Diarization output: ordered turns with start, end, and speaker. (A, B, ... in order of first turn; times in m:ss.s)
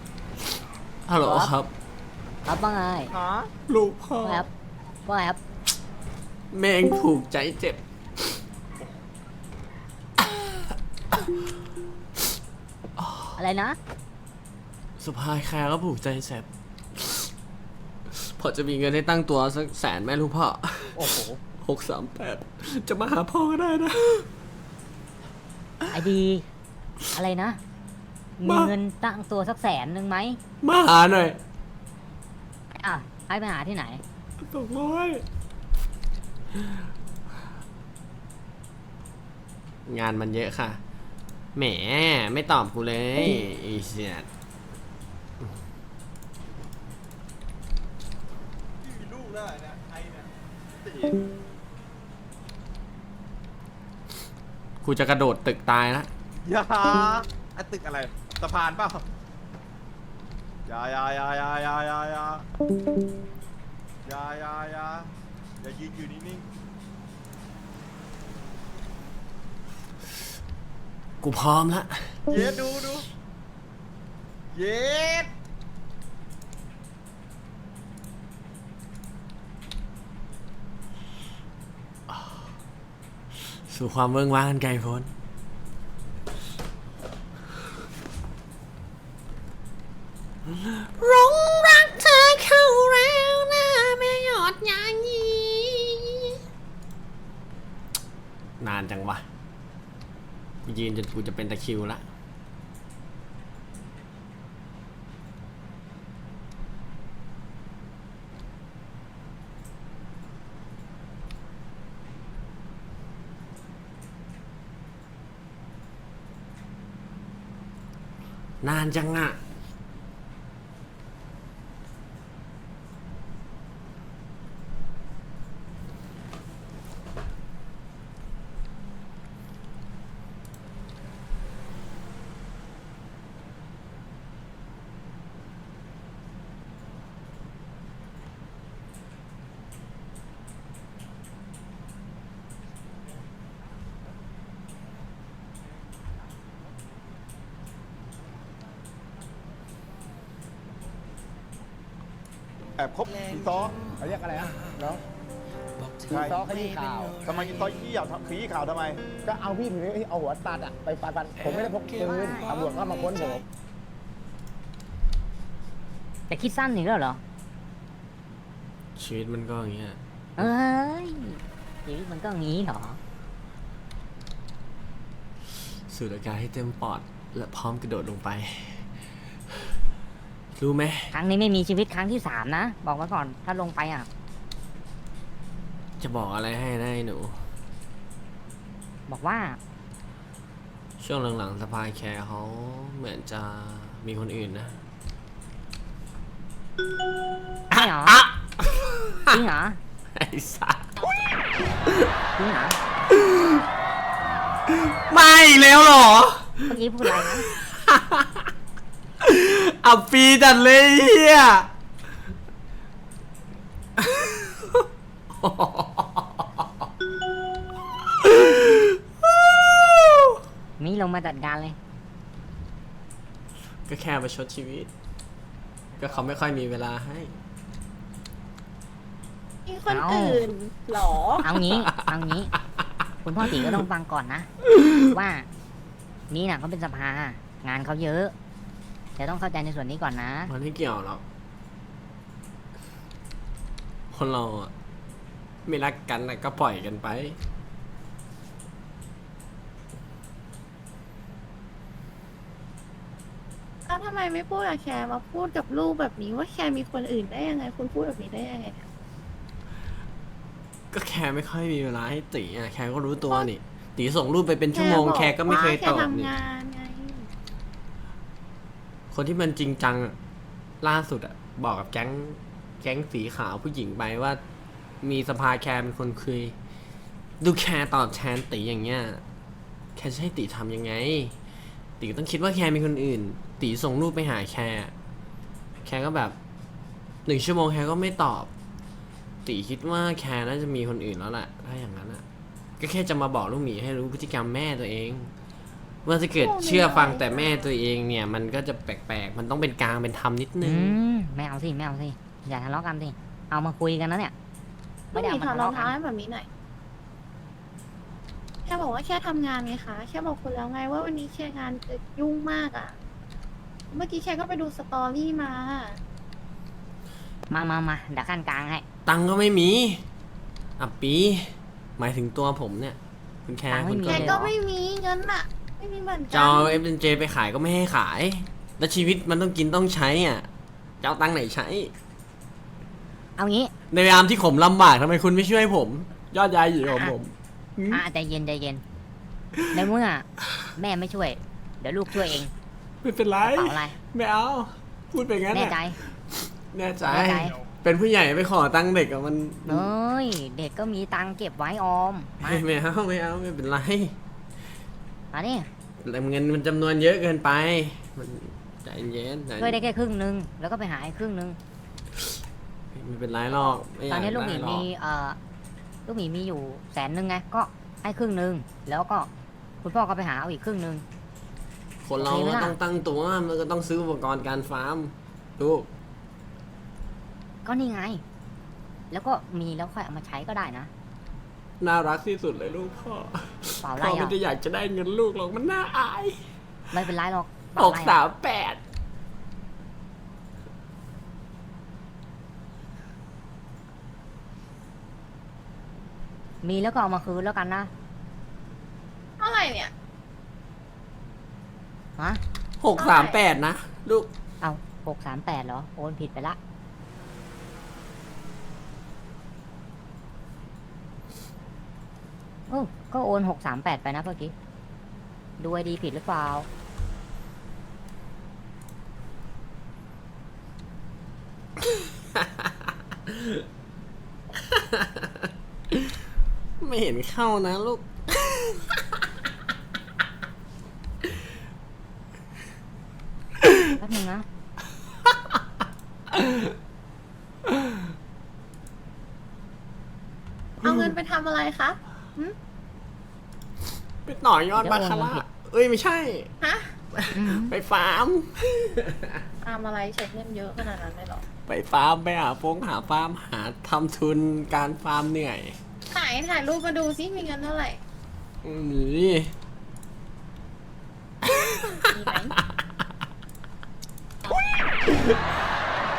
0:01.1-0:01.7 A
0:01.2-0:01.5 B
0:02.5-0:03.1 B
0:03.1-0:03.5 C
0:03.7-0:04.5 A
0:04.2-0:04.5 B
0:05.0-0:05.4 B
0:06.5-0:08.4 A
0:10.2-0:11.3 A
0:13.0-0:13.4 A
0:13.4-0:13.8 B
0:15.0-0:17.3 A
0:18.1-0:24.3 A
0:25.9-0:26.5 B
0:27.1-0:27.6 B
0:28.4-0:30.4 B
0:28.4-0:28.7 A
0:30.6-0:31.4 A
0:32.7-0:34.0 B
0:34.4-0:35.2 A
0:36.5-0:36.8 A
0:39.9-0:40.8 A
0:41.6-0:44.3 A
0:48.8-0:51.2 C
0:54.8-0:56.1 A
0:56.4-0:59.0 C
1:00.7-1:02.4 C
1:04.0-1:06.4 C
1:11.2-1:12.2 A
1:12.3-1:13.1 C
1:14.5-1:15.3 C
1:22.1-1:22.4 A
1:23.4-1:25.1 A
1:30.4-1:36.4 A
1:38.6-1:39.2 A
1:40.7-1:42.0 A
1:58.6-1:59.4 A
2:32.8-2:33.8 C
2:34.0-2:35.0 D
2:36.1-2:36.4 C
2:36.1-2:37.5 D
2:37.2-2:38.9 C
2:38.2-2:43.4 D
2:42.0-2:42.4 B
2:46.3-2:47.2 B
2:49.0-2:50.5 A
2:50.4-2:53.0 B
2:55.9-2:58.9 A
2:59.5-2:59.8 A
3:00.6-3:01.1 A
3:01.1-3:04.1 B
3:06.0-3:07.4 A
3:09.1-3:09.6 B
3:11.0-3:14.8 A
3:17.7-3:19.4 A
3:17.7-3:18.2 B
3:19.3-3:19.8 B
3:20.1-3:20.9 A
3:22.4-3:22.8 B
3:23.1-3:23.6 A
3:24.7-3:28.5 A
3:26.7-3:27.5 B
3:29.2-3:31.7 A
3:34.0-3:36.9 A
3:38.0-3:40.4 A
3:40.8-3:41.8 B
3:43.9-3:44.9 A
3:46.0-3:47.4 A
3:49.7-3:51.5 E
3:49.9-3:50.5 B
3:51.4-3:52.5 B
3:51.6-3:52.1 A
3:53.2-3:54.5 B
3:53.4-3:53.8 A
3:55.0-3:55.5 B
3:56.3-3:58.3 B
3:59.2-4:00.5 B
4:00.5-4:01.2 A
4:04.1-4:04.7 A
4:05.7-4:07.4 A
4:13.9-4:18.9 E
4:20.9-4:26.3 A
4:24.7-4:27.3 E
4:29.1-4:30.2 A
4:30.8-4:34.4 A
4:35.0-4:36.6 A
4:37.4-4:39.2 A
4:40.0-4:41.4 A
4:42.0-4:44.9 A
4:45.8-4:46.4 A
4:47.3-4:48.5 A
4:49.4-4:52.2 A
4:52.8-4:55.3 A
4:56.0-5:01.0 A
4:56.4-4:57.7 E
5:00.6-5:04.3 B
5:05.1-5:06.5 E
5:05.2-5:05.9 B
5:08.7-5:13.0 E
5:13.9-5:16.0 E
5:17.5-5:18.8 B
5:19.1-5:20.0 A
5:20.8-5:24.5 A
5:23.7-5:24.4 B
5:24.1-5:26.8 E
5:26.3-5:30.5 A
5:31.0-5:31.9 A
5:33.4-5:33.7 B
5:33.9-5:38.0 A
5:36.9-5:37.1 B
5:37.9-5:38.8 B
5:39.6-5:39.8 A
5:39.7-5:42.5 B
5:43.0-5:49.9 A
5:43.4-5:44.0 B
5:45.5-5:46.0 B
5:47.1-5:47.6 B
5:49.7-5:52.6 B
5:52.4-5:54.2 A
5:55.3-5:55.7 B
5:56.0-5:59.8 A
5:59.6-6:01.6 B
6:02.9-6:04.9 A
6:04.1-6:05.4 B
6:06.1-6:09.3 B
6:09.8-6:11.0 B
6:12.0-6:15.9 A
6:12.2-6:12.8 B
6:17.6-6:18.2 B
6:19.1-6:20.9 B
6:21.8-6:26.4 A
6:23.8-6:24.4 B
6:26.9-6:28.2 B
6:27.8-6:28.8 A
6:36.6-6:37.9 B
6:39.4-6:39.9 E
6:42.8-6:44.3 A
6:43.0-6:43.4 E
6:44.6-6:46.6 B
6:52.7-6:54.5 B
6:55.6-6:56.7 B
7:01.8-7:03.7 A
7:04.5-7:06.2 A
7:06.8-7:09.2 A
7:14.0-7:14.5 B
7:15.2-7:15.6 A
7:16.3-7:16.7 A
7:17.7-7:18.0 A
7:20.8-7:21.1 A
7:20.8-7:22.6 E
7:24.2-7:26.5 A
7:24.8-7:25.4 B
7:26.6-7:27.0 E
7:27.1-7:29.4 A
7:27.3-7:27.8 B
7:29.6-7:31.4 E
7:31.7-7:35.8 A
7:36.1-7:38.0 E
7:38.6-7:39.5 A
7:41.4-7:42.8 A
7:41.9-7:42.6 E
7:44.9-7:45.4 A